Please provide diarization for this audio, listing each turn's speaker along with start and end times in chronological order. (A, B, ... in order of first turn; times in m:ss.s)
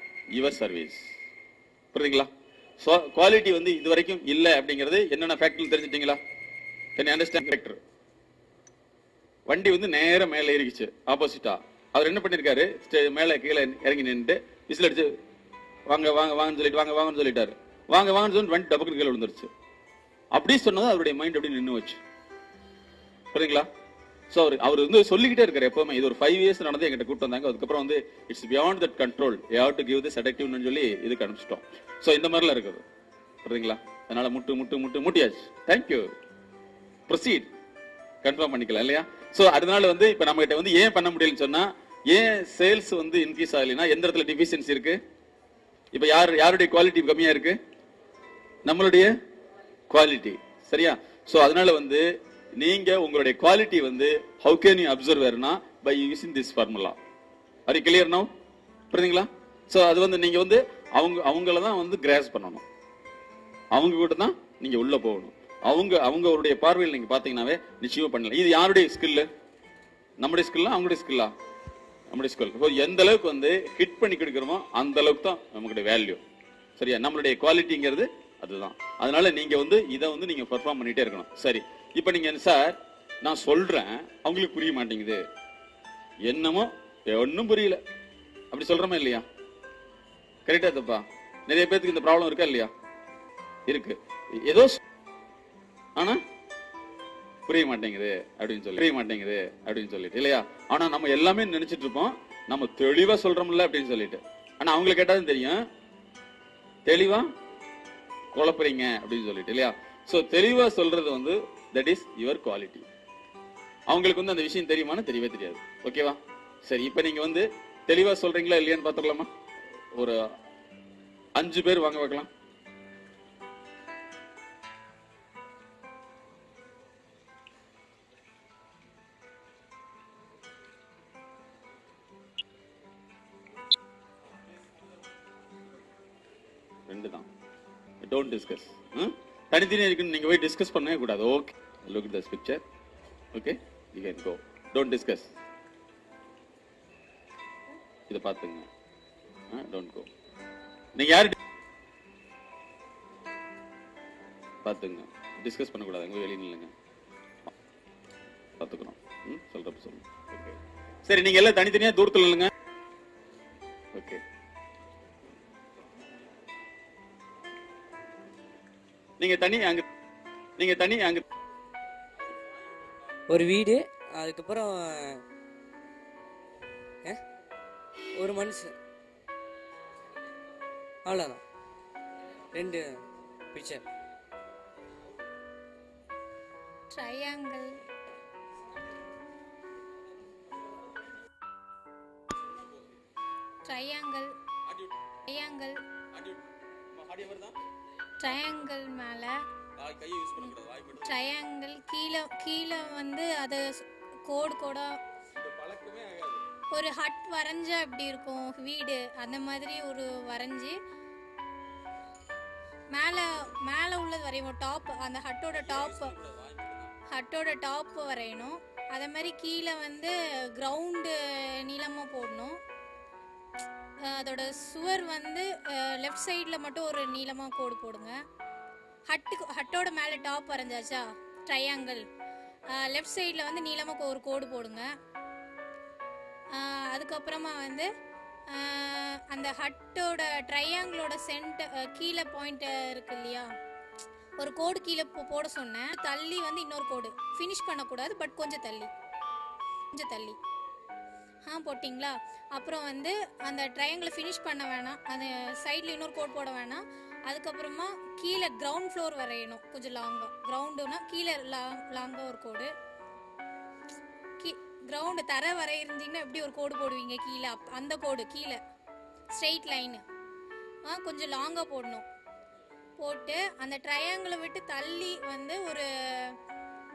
0:00.3-0:01.1 A
0:01.9-0:06.2 A
0:07.0-0:07.8 A
0:09.5-0:15.2 A
0:15.9-0:19.5 A
0:20.3-0:22.0 A
0:23.3-0:23.7 A
0:24.3-0:32.8 A
0:33.4-0:36.1 A
0:37.1-0:37.5 A
0:38.2-0:45.0 A
0:45.9-0:47.6 A
0:48.6-0:49.1 A
0:49.9-0:57.0 A
0:57.7-0:58.3 A
0:58.9-1:02.6 A
1:03.7-1:09.3 A
1:10.2-1:11.3 A
1:12.1-1:16.2 A
1:16.8-1:25.2 A
1:26.2-1:27.8 A
1:28.5-1:29.3 A
1:30.4-1:32.7 A
1:33.7-1:34.8 A
1:36.0-1:36.2 A
1:37.5-1:45.6 A
1:46.9-1:47.3 A
1:48.3-1:52.9 A
1:53.9-1:59.3 A
1:59.9-2:00.2 A
2:01.4-2:02.3 A
2:14.4-2:14.8 A
2:16.9-2:17.3 A
2:18.0-2:22.6 A
2:23.3-2:25.3 A
2:28.1-2:28.7 A
2:29.5-2:30.1 A
2:30.9-2:31.4 A
2:34.6-2:36.7 A
2:38.6-2:42.5 A
2:43.9-2:44.2 A
2:49.2-2:49.8 A
2:50.6-2:51.2 A
2:52.3-2:53.2 A
2:53.3-2:55.2 B
2:58.2-2:58.7 B
3:01.1-3:01.4 B
3:02.6-3:03.0 B
3:03.5-3:03.8 B
3:06.9-3:07.8 C
3:12.4-3:13.0 A
3:13.6-3:14.3 C
3:14.7-3:15.0 A
3:15.3-3:15.8 C
3:16.1-3:17.6 A
3:18.2-3:19.3 C
3:18.2-3:18.6 A
3:19.8-3:21.2 A
3:21.0-3:25.0 C
3:25.4-3:26.4 A
3:26.7-3:30.8 C
3:32.9-3:36.1 C
3:35.5-3:36.9 A
3:37.1-3:42.6 C
3:44.0-3:48.2 C
3:49.1-3:52.0 C
3:52.7-3:54.9 C
3:56.5-3:57.9 C
3:58.5-4:03.5 C
4:04.4-4:08.9 C
4:09.9-4:10.4 C
4:11.5-4:22.7 C
4:24.4-4:28.6 C
4:29.4-4:30.0 C
4:30.9-4:32.0 C
4:33.0-4:36.4 C